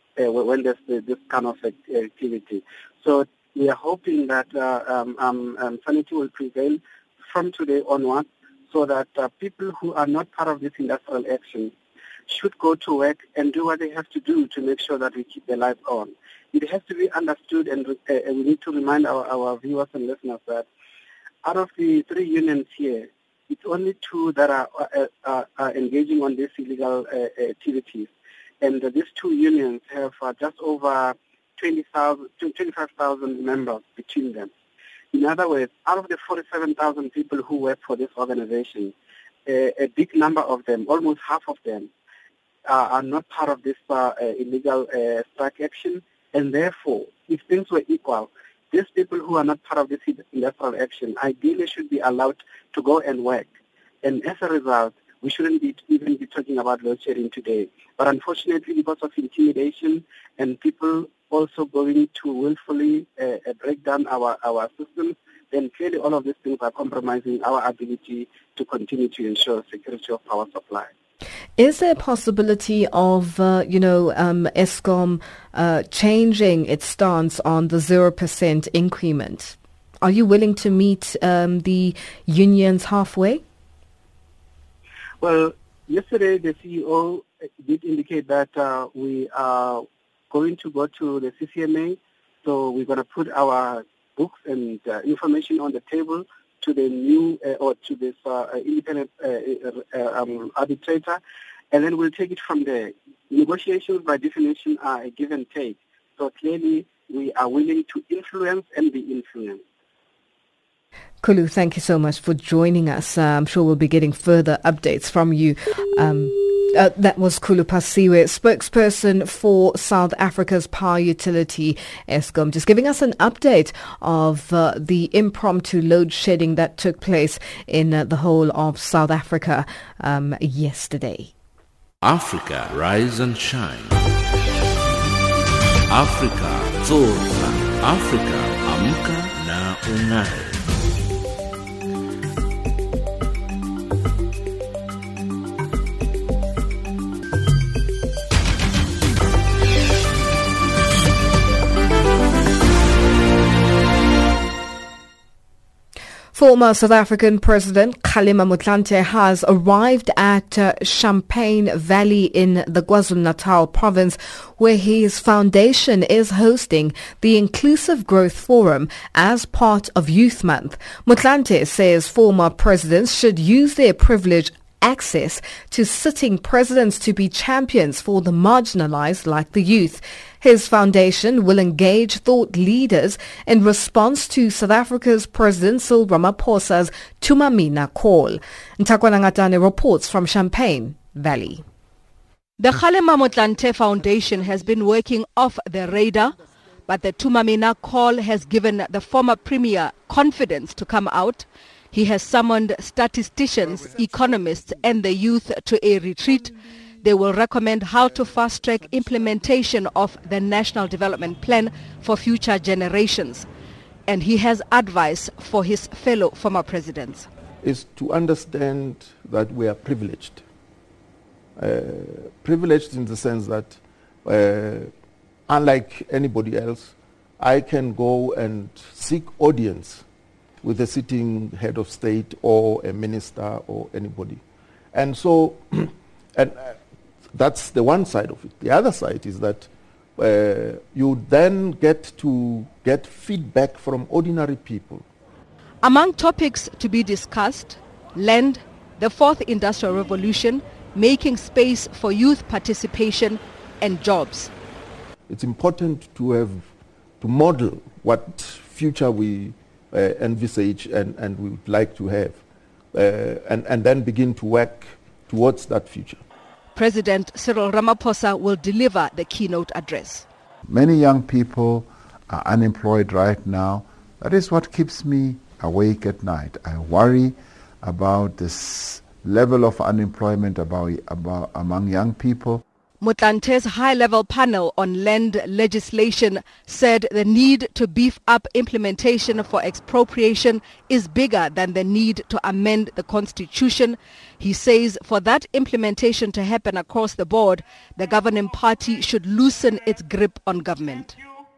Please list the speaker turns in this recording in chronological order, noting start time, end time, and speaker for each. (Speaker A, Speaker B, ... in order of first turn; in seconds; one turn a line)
Speaker A: 0.2-11.7
Speaker A: 12.3-20.6
Speaker A: 21.4-28.1
Speaker A: 28.6-34.5
Speaker A: 35.1-38.9
Speaker A: 39.5-41.9
Speaker A: 42.7-53.5
Speaker A: 54.0-70.9
Speaker B: 71.6-83.4
Speaker A: 85.2-101.2
Speaker A: 101.7-109.6
Speaker B: 111.2-131.3
Speaker C: 132.0-134.1
Speaker C: 135.9-140.7
Speaker B: 156.3-191.6
Speaker D: 192.6-196.3
Speaker D: 196.9-206.4
Speaker D: 207.0-213.4
Speaker D: 214.1-217.3
Speaker E: 217.6-220.4
Speaker E: 221.6-224.9
Speaker E: 225.5-230.0
Speaker E: 230.6-234.4
Speaker E: 234.9-236.8
Speaker E: 237.3-245.0
Speaker D: 245.8-254.5
Speaker E: 255.3-256.7
Speaker E: 257.2-262.4
Speaker E: 262.9-266.2
Speaker D: 266.7-270.2
Speaker F: 270.7-282.6
Speaker D: 283.0-301.1